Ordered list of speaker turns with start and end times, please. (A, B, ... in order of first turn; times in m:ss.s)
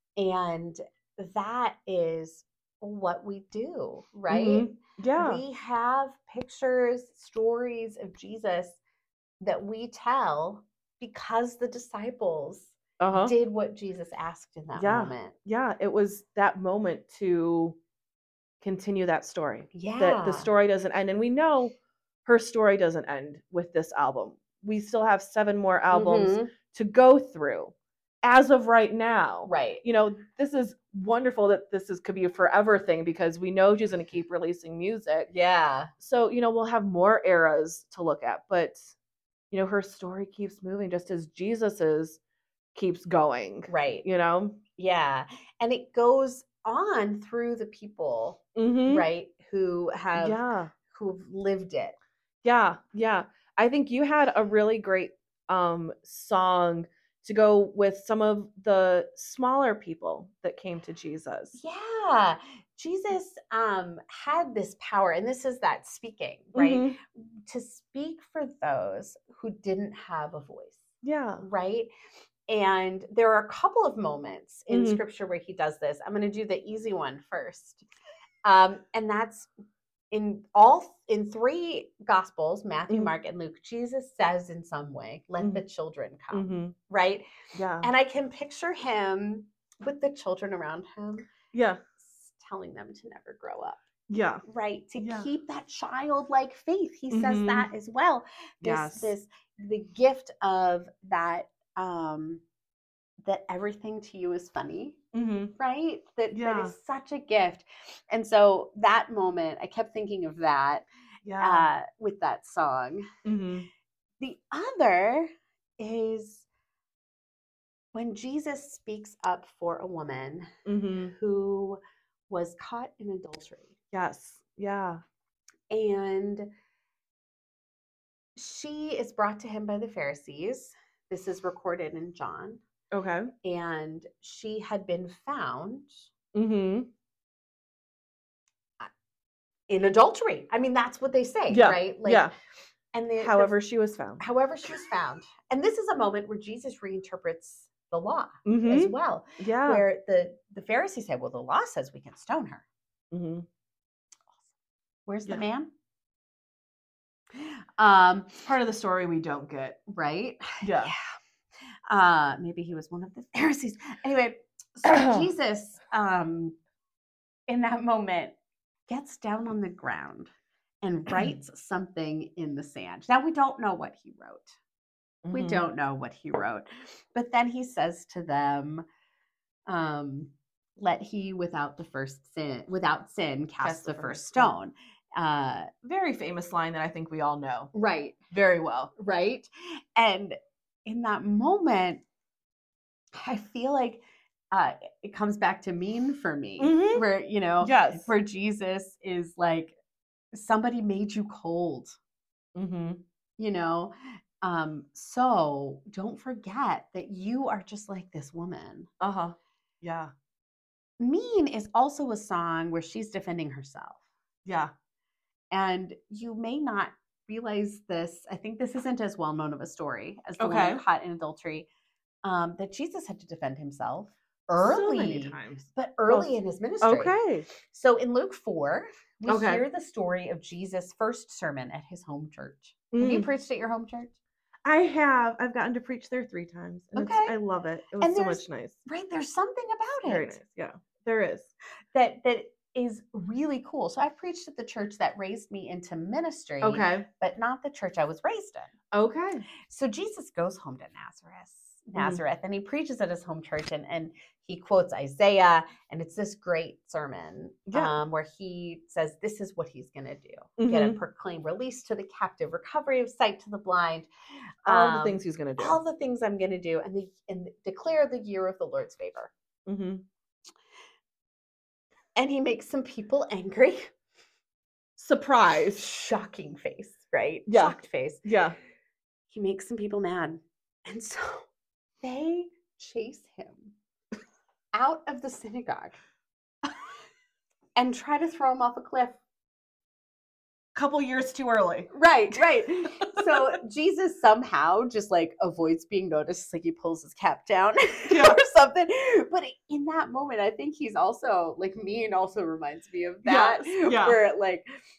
0:00.2-0:08.8 A
0:04.3-0:05.4 B
0:09.4-0:15.4 A
0:13.0-0:13.3 B
0:14.8-0:17.8 B
0:18.6-0:35.3 B
0:19.7-0:20.5 A
0:25.9-0:26.5 A
0:29.5-0:29.8 A
0:35.3-0:35.9 A
0:36.0-0:39.0 B
0:39.5-0:42.2 B
0:42.8-0:44.6 B
0:43.7-0:44.0 A
0:44.8-0:52.0 A
0:48.6-0:49.1 B
0:50.2-0:50.7 B
0:52.4-1:01.6 B
1:01.6-1:10.8 A
1:06.5-1:07.0 B
1:11.0-1:11.4 B
1:11.4-1:11.9 A
1:12.5-1:17.8 A
1:14.7-1:15.0 B
1:18.4-1:19.5 A
1:20.1-1:27.2 A
1:26.3-1:26.7 B
1:27.6-1:27.9 B
1:27.8-1:31.3 A
1:31.5-1:31.8 B
1:32.0-1:33.8 A
1:34.1-1:34.4 B
1:34.5-1:42.4 A
1:35.0-1:35.3 B
1:37.1-1:37.7 B
1:38.6-1:39.1 B
1:43.2-1:45.0 A
1:45.1-1:45.6 B
1:45.6-1:50.9 A
1:46.3-1:46.8 B
1:51.2-1:51.7 B
1:51.4-1:53.1 A
1:53.2-1:53.7 B
1:54.2-1:56.4 A
1:57.9-2:03.8 A
2:00.7-2:01.2 B
2:03.9-2:05.0 B
2:05.7-2:06.5 A
2:08.4-2:12.6 A
2:12.9-2:13.3 B
2:13.4-2:16.1 A
2:16.3-2:16.9 B
2:19.7-2:22.3 A
2:21.5-2:22.3 B
2:22.9-2:23.5 A
2:23.2-2:24.2 B
2:24.2-2:32.6 A
2:28.5-2:29.8 B
2:33.1-2:33.5 B
2:35.1-2:35.7 A
2:37.4-2:38.3 A
2:38.4-2:39.8 B
2:39.9-2:41.0 A
2:40.6-2:40.9 B
2:41.9-2:46.6 A
2:44.8-2:45.3 B
2:47.5-2:48.4 A
2:48.9-2:54.6 A
2:55.2-2:55.6 B
2:55.3-2:58.8 A
2:59.7-3:05.7 A
3:03.6-3:04.5 B
3:05.8-3:07.7 B
3:07.8-3:12.0 A
3:13.2-3:19.8 A
3:16.6-3:17.0 B
3:17.6-3:18.1 B
3:20.3-3:22.0 A
3:22.6-3:23.0 B
3:23.4-3:28.9 A
3:29.0-3:30.1 B
3:31.0-3:34.0 A
3:34.5-3:34.7 B
3:35.5-3:41.7 A
3:40.4-3:40.8 B
3:42.2-3:54.1 A
3:44.6-3:46.3 B
3:46.8-3:47.5 B
3:49.3-3:49.6 B
3:52.9-3:53.3 B
3:54.6-3:58.8 B
3:57.0-3:57.4 A
3:58.0-4:00.4 A
4:00.0-4:01.5 B
4:01.9-4:08.7 A
4:06.6-4:07.1 B
4:08.9-4:09.4 B
4:09.6-4:24.1 A
4:12.0-4:12.2 B
4:17.7-4:18.0 B
4:20.6-4:21.0 B
4:24.6-4:29.3 A
4:24.7-4:25.8 B
4:29.7-4:30.0 B
4:32.2-4:33.9 A
4:35.0-4:35.9 B
4:35.8-4:38.2 A
4:37.5-4:38.6 B
4:39.3-4:41.5 A
4:42.0-4:43.7 A
4:44.7-4:46.0 A
4:47.8-4:49.2 A
4:50.8-4:52.4 B
4:51.9-5:04.7 A
4:53.1-4:53.4 B
4:58.1-4:58.4 B
5:03.2-5:04.2 B